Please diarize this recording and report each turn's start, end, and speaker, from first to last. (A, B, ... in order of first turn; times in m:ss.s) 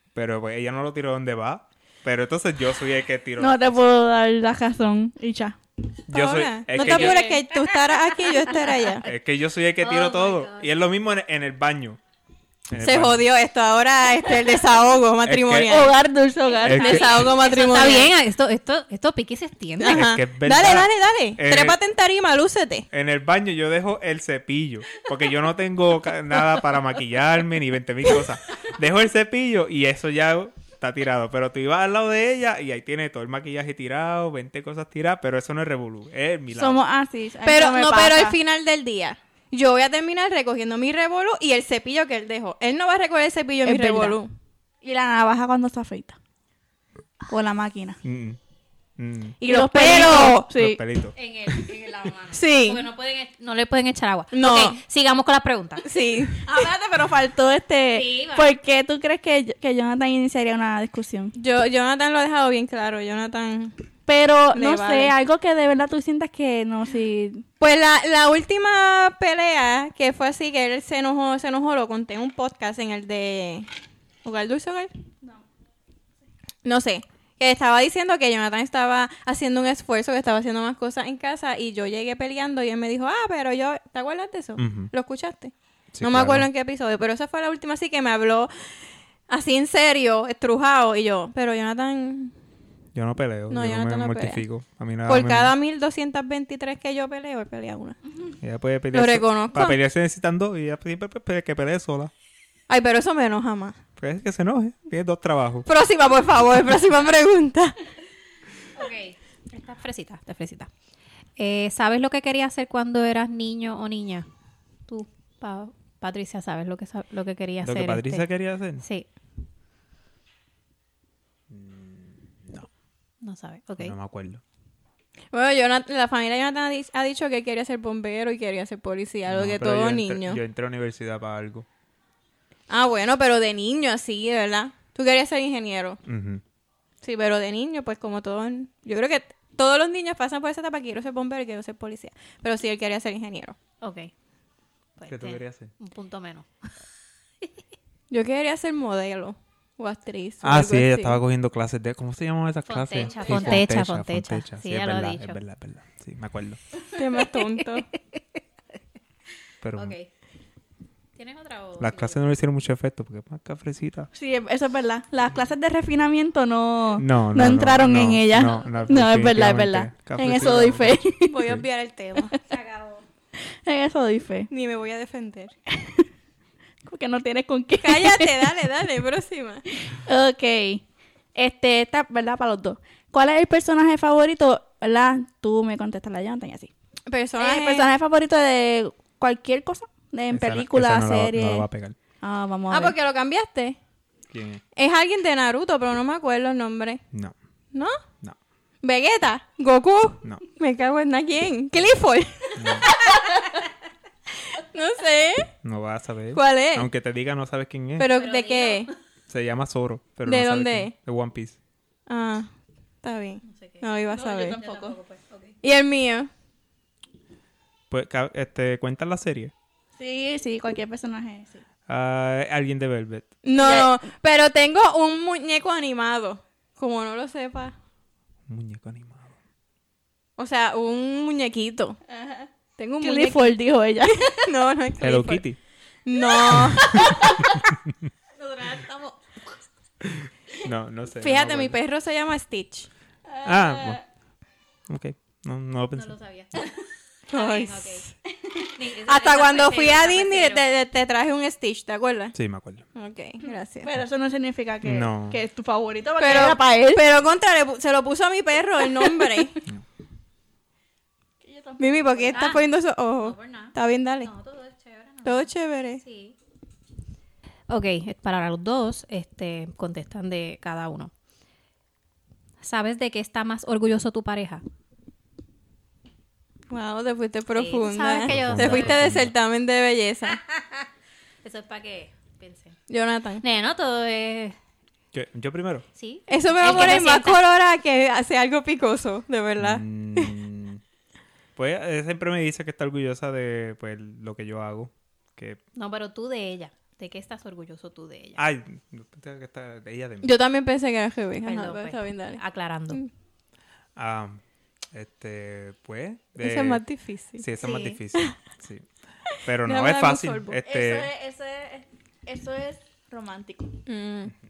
0:00.2-0:03.8 A
0:03.4-0:05.6 B
0:06.1-0:07.2 A
0:06.1-0:09.1 C
0:06.8-0:07.3 B
0:09.0-0:12.0 A
0:09.8-0:10.7 D
0:12.7-0:13.2 A
0:12.8-0:16.0 C
0:15.2-0:15.8 A
0:15.7-0:17.1 B
0:16.6-0:17.4 A
0:16.6-0:20.0 D
0:16.6-0:18.1 C
0:19.8-0:22.9 C
0:19.9-0:21.8 A
0:22.9-0:36.8 A
0:36.5-0:38.4 B
0:37.4-0:44.3 C
0:43.6-0:44.2 B
0:44.8-0:46.2 B
0:47.3-0:48.0 B
0:48.0-0:48.4 A
0:49.0-0:49.4 A
0:49.4-0:50.5 C
0:49.4-0:50.8 B
0:50.1-0:51.7 A
0:51.1-0:55.9 D
0:52.3-0:52.8 C
0:54.3-0:54.8 C
0:55.8-0:56.6 C
0:56.4-1:01.3 B
0:57.9-0:58.5 D
1:01.4-1:03.8 C
1:04.1-1:07.4 B
1:04.5-1:05.1 C
1:07.6-1:13.7 C
1:14.2-1:14.9 C
1:16.6-1:28.5 C
1:24.6-1:24.9 A
1:25.9-1:26.5 A
1:29.3-1:32.3 C
1:33.0-1:35.5 A
1:33.5-1:34.4 C
1:35.1-1:38.0 C
1:38.4-1:42.1 A
1:38.9-1:39.8 C
1:42.7-1:43.8 C
1:44.0-1:45.7 A
1:45.7-1:47.8 C
1:48.8-1:50.7 D
1:51.4-1:54.3 D
1:54.9-1:58.3 D
1:57.6-1:58.8 A
1:58.8-1:59.1 D
2:01.5-2:02.7 A
2:03.2-2:04.0 D
2:03.8-2:04.4 A
2:05.3-2:10.4 C
2:09.3-2:11.7 A
2:12.7-2:16.0 C
2:16.1-2:16.4 A
2:17.0-2:23.6 C
2:23.8-2:24.1 D
2:25.0-2:26.5 D
2:25.1-2:25.7 A
2:28.1-2:31.2 C
2:30.4-2:36.6 A
2:32.7-2:35.4 D
2:33.3-2:33.6 C
2:36.9-2:37.9 C
2:39.6-2:40.0 A
2:39.8-2:40.1 D
2:41.2-2:42.2 D
2:41.8-2:44.1 A
2:44.1-2:51.4 B
2:47.0-2:51.6 A
2:51.3-2:52.4 C
2:52.5-2:53.0 D
2:53.6-2:54.5 B
2:54.5-2:55.5 C
2:55.7-2:56.1 B
2:56.8-2:58.5 B
2:57.8-2:59.6 C
2:59.8-3:00.8 B
3:01.4-3:06.7 B
3:07.1-3:07.9 C
3:07.4-3:11.7 B
3:10.3-3:12.0 A
3:12.2-3:13.0 B
3:12.7-3:13.8 C
3:14.3-3:14.6 A
3:14.8-3:17.0 C
3:18.8-3:23.5 C
3:22.6-3:22.9 A
3:24.5-3:25.5 C
3:25.6-3:28.1 A
3:26.3-3:26.9 C
3:28.0-3:28.9 C
3:28.2-3:28.9 D
3:29.3-3:31.6 A
3:30.3-3:30.9 C
3:32.1-3:32.5 C
3:33.0-3:34.6 C
3:33.4-3:35.6 D
3:34.1-3:35.0 B
3:35.6-3:36.3 C
3:37.9-3:39.5 A
3:40.0-3:41.6 B
3:41.9-3:43.4 A
3:43.4-3:47.8 C
3:43.6-3:44.0 B
3:48.5-3:49.3 A
3:50.4-3:52.0 C
3:52.1-3:52.5 B
3:52.8-3:55.4 C
3:53.0-3:54.5 B
3:55.0-3:55.6 A
3:56.1-3:57.2 C
3:56.6-3:57.4 B
3:58.4-3:59.1 D
3:58.6-3:59.0 B
4:00.0-4:01.8 A
4:01.2-4:02.9 C
4:03.3-4:04.0 B
4:03.4-4:04.0 A
4:04.9-4:06.1 A
4:06.0-4:08.1 D
4:07.3-4:08.1 C
4:08.7-4:10.6 D
4:09.1-4:12.4 C
4:12.4-4:12.8 A
4:13.0-4:13.9 C
4:13.8-4:17.0 B
4:14.8-4:15.4 A
4:16.2-4:19.6 C
4:19.0-4:19.5 B
4:21.4-4:22.5 B
4:21.8-4:24.3 C
4:22.3-4:22.6 D
4:23.2-4:26.4 D
4:25.2-4:26.0 C
4:27.7-4:31.1 D
4:32.6-4:34.6 D
4:36.7-4:40.4 C
4:37.6-4:39.1 D
4:38.2-4:39.3 A
4:40.3-4:40.9 D
4:41.4-4:42.8 D
4:42.9-4:43.4 C
4:43.4-4:44.6 D
4:45.1-4:45.9 A
4:46.0-4:47.4 D
4:46.3-4:50.3 C
4:49.6-4:50.8 A
4:51.6-4:55.6 A
4:55.8-4:58.4 D
4:58.4-5:00.3 A
5:00.2-5:03.1 C
5:01.4-5:03.0 D
5:04.0-5:04.4 A
5:04.9-5:06.8 A
5:06.4-5:07.4 C
5:07.4-5:08.9 A
5:07.6-5:08.0 D
5:09.4-5:11.1 A
5:09.6-5:10.6 C
5:10.6-5:13.8 B
5:13.9-5:14.3 C